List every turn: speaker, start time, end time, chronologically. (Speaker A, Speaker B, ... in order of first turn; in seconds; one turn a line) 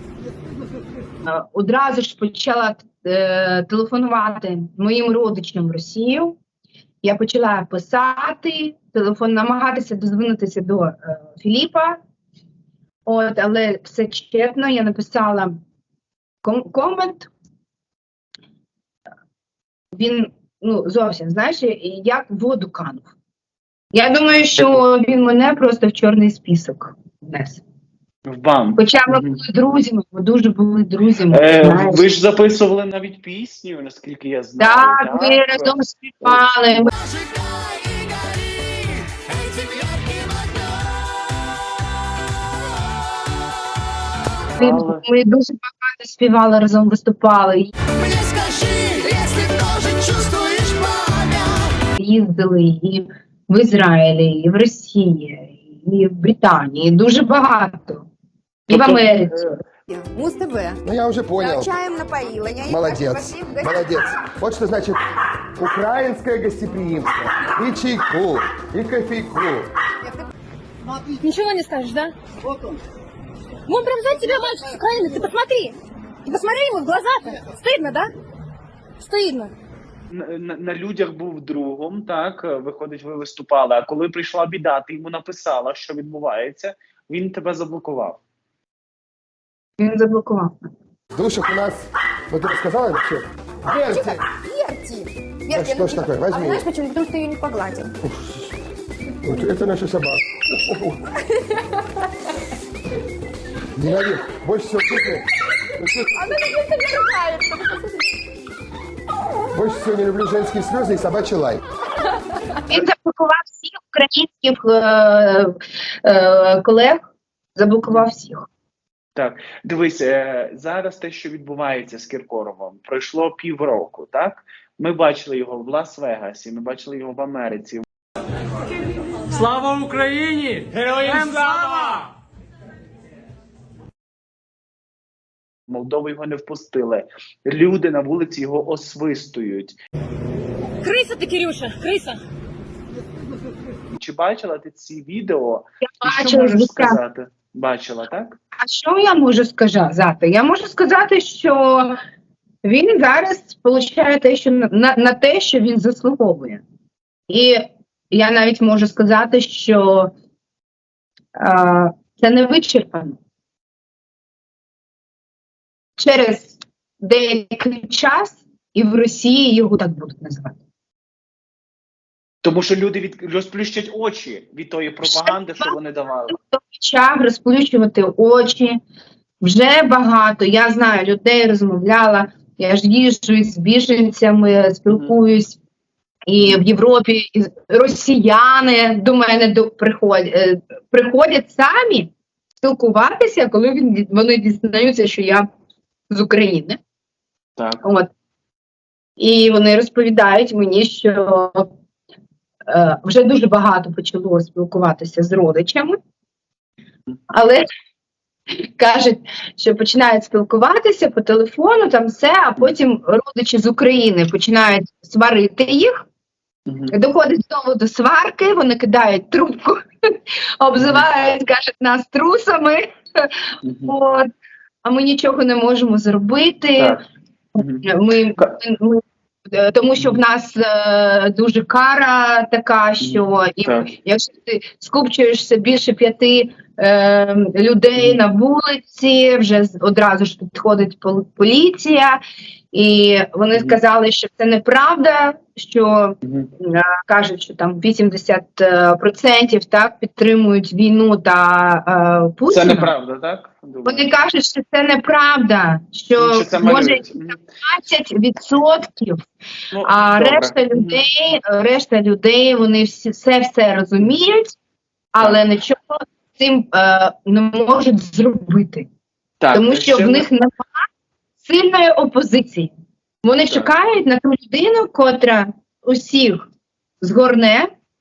Speaker A: 1.2-6.4
Speaker A: 7.0-12.0
Speaker A: 13.1-15.6
Speaker A: 16.4-17.3
Speaker A: 19.9-23.1
Speaker A: 23.9-27.6
Speaker B: 28.3-29.4
Speaker A: 28.8-32.0
Speaker B: 31.3-36.4
Speaker A: 34.6-36.9
Speaker C: 37.1-40.6
Speaker B: 44.5-45.0
Speaker A: 44.6-47.7
Speaker C: 48.0-51.4
Speaker A: 52.0-58.1
Speaker A: 58.7-59.6
Speaker B: 58.7-59.5
Speaker D: 59.9-60.8
Speaker E: 60.8-61.7
Speaker D: 61.4-63.9
Speaker E: 62.7-65.0
Speaker E: 65.5-69.7
Speaker D: 70.0-70.3
Speaker F: 71.2-72.1
Speaker F: 73.7-78.1
Speaker F: 79.0-79.5
Speaker B: 80.1-88.2
Speaker A: 89.8-90.5
Speaker E: 91.1-94.2
Speaker D: 93.7-97.9
Speaker E: 95.5-96.7
Speaker E: 98.0-98.5
Speaker E: 99.2-101.0
Speaker E: 103.8-106.1
Speaker D: 106.1-108.1
Speaker E: 109.5-111.6
Speaker A: 112.7-118.5
Speaker B: 119.2-127.8
Speaker G: 129.5-131.9
Speaker B: 135.7-139.7
Speaker F: 140.8-142.2
Speaker B: 144.0-148.4
Speaker A: 146.0-147.0
Speaker A: 148.6-151.9
Speaker A: 152.6-156.6
Speaker A: 157.3-160.1
Speaker A: 161.4-163.2
Speaker A: 166.0-170.6
Speaker B: 172.4-176.3
Speaker A: 175.0-175.7
Speaker A: 176.3-178.8
Speaker A: 179.4-185.6
Speaker A: 186.3-195.4
Speaker A: 196.1-196.8
Speaker B: 197.6-197.8
Speaker A: 197.8-198.1
Speaker A: 199.2-201.7
Speaker A: 202.7-206.0
Speaker A: 207.3-207.6
Speaker A: 208.5-216.0
Speaker B: 216.7-216.9
Speaker A: 216.9-219.8
Speaker A: 220.6-223.3
Speaker B: 220.8-221.1
Speaker B: 223.6-223.9
Speaker A: 223.9-224.3
Speaker A: 224.8-227.0
Speaker B: 227.6-227.9
Speaker A: 227.8-242.2
Speaker B: 233.0-233.9
Speaker B: 238.0-238.2
Speaker A: 242.7-252.9
Speaker B: 246.2-246.5
Speaker B: 252.5-254.1
Speaker A: 253.8-259.2
Speaker B: 256.2-257.4
Speaker B: 259.7-261.0
Speaker A: 259.9-264.5
Speaker A: 265.1-268.9
Speaker B: 269.4-270.3
Speaker A: 269.5-270.7
Speaker A: 271.4-272.7
Speaker A: 273.2-276.5
Speaker B: 273.4-273.7
Speaker A: 277.0-277.7